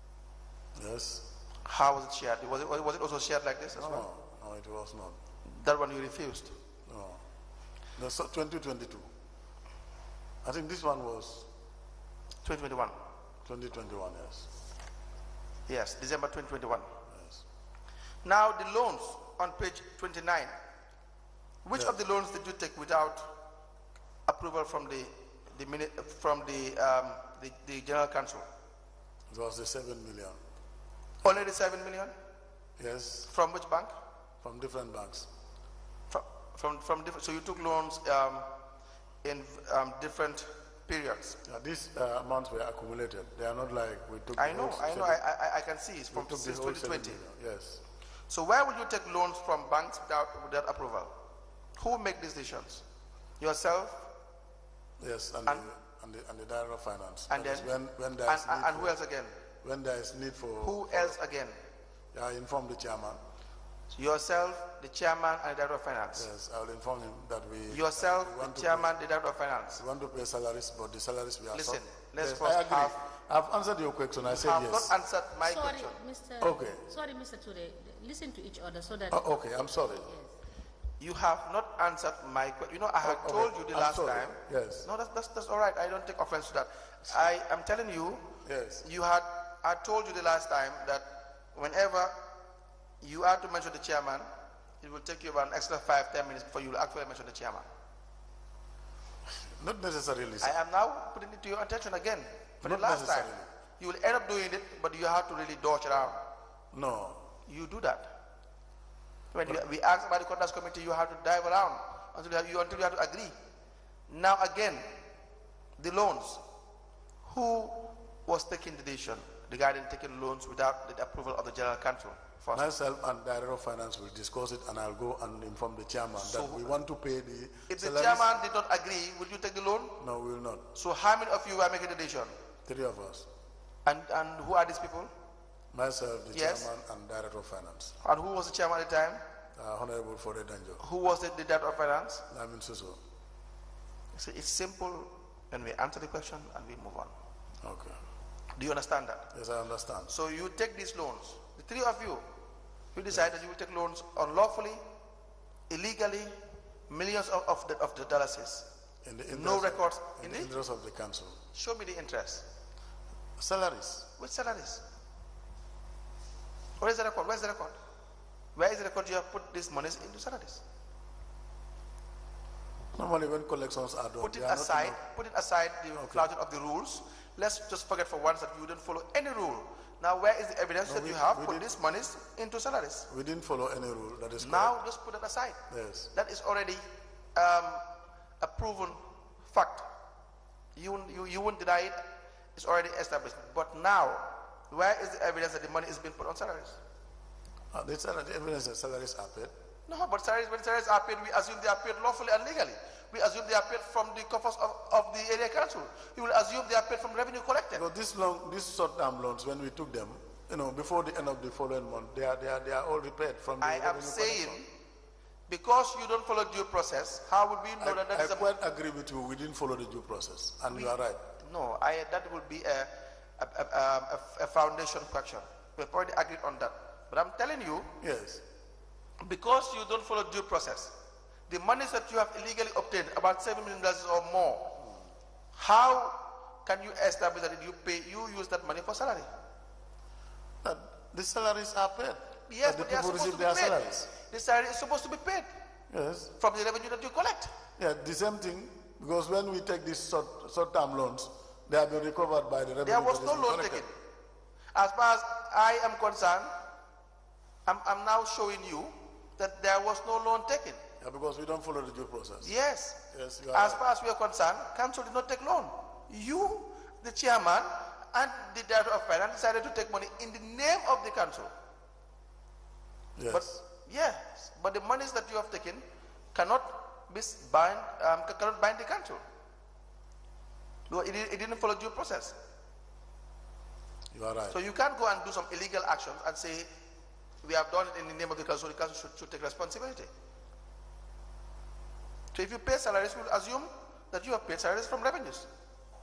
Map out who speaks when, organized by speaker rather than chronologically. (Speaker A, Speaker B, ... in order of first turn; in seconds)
Speaker A: 0.8-1.2, 3.8-5.2, 6.9-7.2, 8.0-9.1, 10.4-11.5, 13.4-14.5, 17.1-17.4, 29.3-30.4, 32.8-33.3, 34.4-35.3, 41.4-45.2, 46.1-47.8, 55.0-59.0, 59.6-61.2, 62.1-63.2, 66.1-68.9, 69.8-74.9, 76.4-76.8, 79.1-80.1, 83.0-84.9, 88.4-88.9, 99.4-100.5, 102.6-103.5, 106.7-107.3, 122.5-128.3, 130.0-130.7, 132.7-133.3, 135.7-137.9, 139.5-140.8, 142.3-143.0, 147.6-148.0, 149.3-150.1, 159.0-161.4, 163.4-164.1, 172.9-175.0, 175.9-176.3, 180.9-181.7, 183.1-184.8, 185.7-186.1, 197.7-199.5, 207.7-214.6, 217.8-221.2, 228.0-228.4, 240.6-244.1, 245.9-246.3, 247.8-253.8, 261.0-262.5, 263.1-263.9, 273.2-273.6, 284.1-284.6
Speaker B: 1.6-4.1, 5.5-6.5, 12.4-13.0, 15.7-16.9, 18.2-20.6, 21.6-23.3, 24.2-28.5, 31.2-32.1, 33.3-33.9, 36.1-38.5, 39.2-41.4, 44.4-47.2, 48.3-51.2, 51.8-52.8, 53.4-54.1, 57.3-59.4, 60.6-61.6, 63.9-66.3, 67.7-69.8, 71.5-73.0, 74.2-76.0, 81.0-92.2, 93.0-94.3, 94.8-97.7, 100.4-106.2, 107.5-108.1, 109.3-113.3, 114.1-114.9, 115.8-116.4, 117.2-122.7, 126.2-126.7, 127.7-130.0, 130.7-132.3, 133.8-135.1, 136.3-136.7, 138.0-139.2, 140.8-142.2, 144.1-147.1, 148.5-149.3, 150.1-152.2, 152.9-154.8, 155.7-156.4, 156.9-158.7, 159.3-160.5, 161.5-162.4, 164.2-164.8, 166.8-167.8, 168.5-170.6, 174.2-183.1, 184.4-186.8, 187.3-187.8, 188.4-189.9, 190.7-192.0, 192.5-196.8, 199.9-207.8, 213.6-214.7, 215.5-218.5, 220.7-227.9, 229.2-230.9, 231.5-234.8, 235.5-239.3, 242.5-245.5, 246.4-247.6, 252.8-254.0, 254.7-256.5, 257.6-260.8, 262.4-271.5, 273.3-279.2, 280.9-282.4, 284.5-286.7, 287.4-290.1, 292.3-295.5
Speaker C: 75.4-80.3